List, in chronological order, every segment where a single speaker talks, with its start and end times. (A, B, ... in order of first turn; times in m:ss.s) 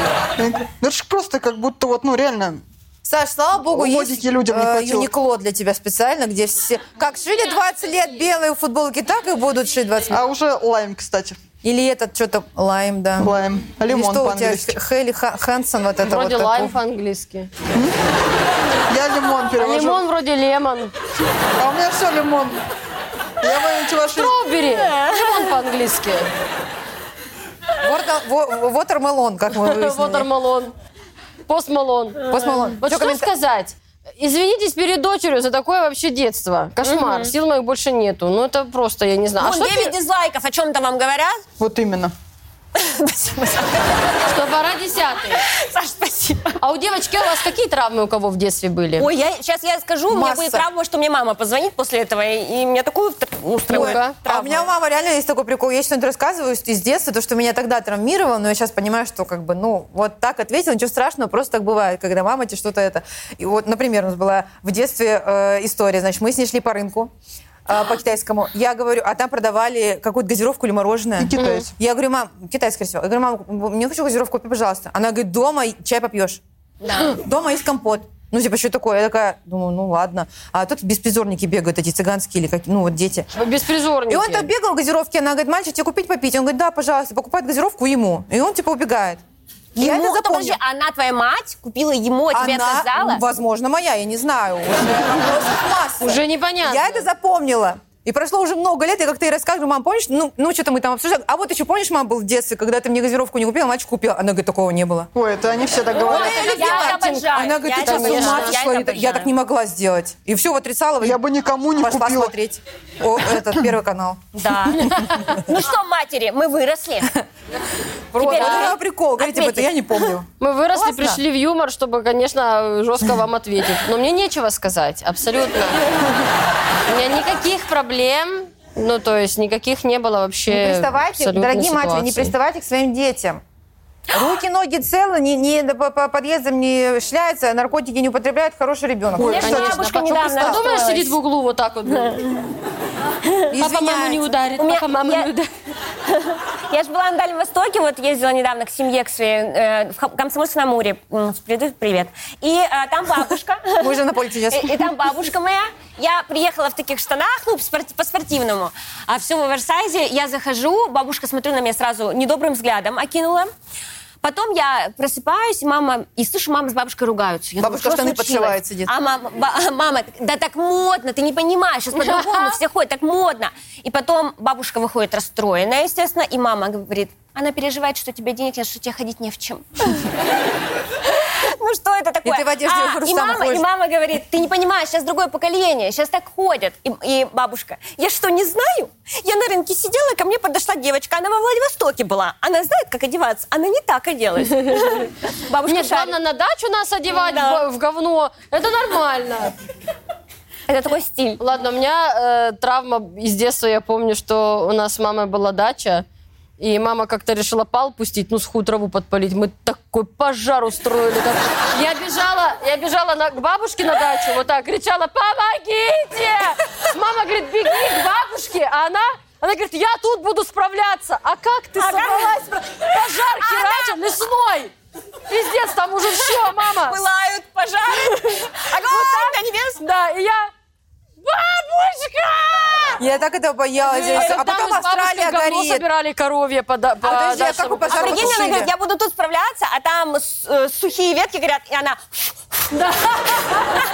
0:00.4-0:02.6 A
0:03.0-0:10.2 B
0:03.6-0:05.1 A
0:10.1-0:11.4 A
0:11.6-0:16.8 B
0:13.2-0:14.8 A
0:16.1-0:17.5 C
0:18.9-0:20.0 A
0:19.6-0:20.9 C
0:21.6-0:22.6 A
0:23.4-0:24.3 A
0:24.1-0:26.3 C
0:27.8-0:30.3 B
0:29.5-0:30.7 C
0:31.5-0:39.9 C
0:32.3-0:33.3 B
0:36.8-0:37.3 D
0:39.4-0:41.4 D
0:41.6-0:42.1 A
0:42.7-0:44.0 D
0:44.2-0:45.4 C
0:45.4-0:46.6 D
0:46.6-0:49.1 C
0:49.0-0:54.7 D
0:50.1-0:50.6 B
0:53.7-1:07.1 B
0:53.7-0:54.2 C
1:07.7-1:16.4 B
1:11.2-1:11.7 A
1:11.4-1:11.6 C
1:16.8-1:17.1 D
1:16.9-1:23.3 B
1:23.3-1:24.5 C
1:24.1-1:29.2 B
1:29.7-1:33.2 D
1:29.8-1:30.6 B
1:32.3-1:45.1 B
1:36.0-1:37.0 C
1:45.1-1:46.5 A
1:45.9-1:49.3 D
1:46.0-1:48.6 C
1:46.0-1:51.2 B
1:51.0-1:52.3 A
1:51.8-1:54.2 B
1:54.3-1:57.1 D
1:58.1-2:01.2 B
1:58.1-1:59.7 D
2:00.4-2:05.8 C
2:06.9-2:12.3 C
2:10.5-2:13.4 B
2:14.1-2:20.6 B
2:19.1-2:19.8 A
2:19.2-2:21.2 D
2:19.4-2:22.2 C
2:23.5-2:24.3 B
2:23.5-2:25.5 C
2:24.6-2:25.3 D
2:26.1-2:43.5 D
2:33.8-2:34.9 B
2:44.2-3:00.2 D
2:47.6-2:48.9 B
2:52.2-2:52.5 C
3:01.1-3:16.2 D
3:02.2-3:03.6 B
3:15.7-3:19.5 C
3:17.1-3:17.6 D
3:20.7-3:21.4 D
3:21.4-3:26.0 C
3:26.6-3:44.7 C
3:41.8-3:44.0 D
3:45.3-3:47.0 C
3:46.2-3:49.8 D
3:48.0-3:50.5 C
3:51.2-3:53.0 C
3:53.0-3:55.8 B
3:53.9-3:58.6 C
3:53.9-3:54.4 D
3:57.0-3:58.7 B
3:57.9-4:02.7 D
4:02.7-4:03.8 C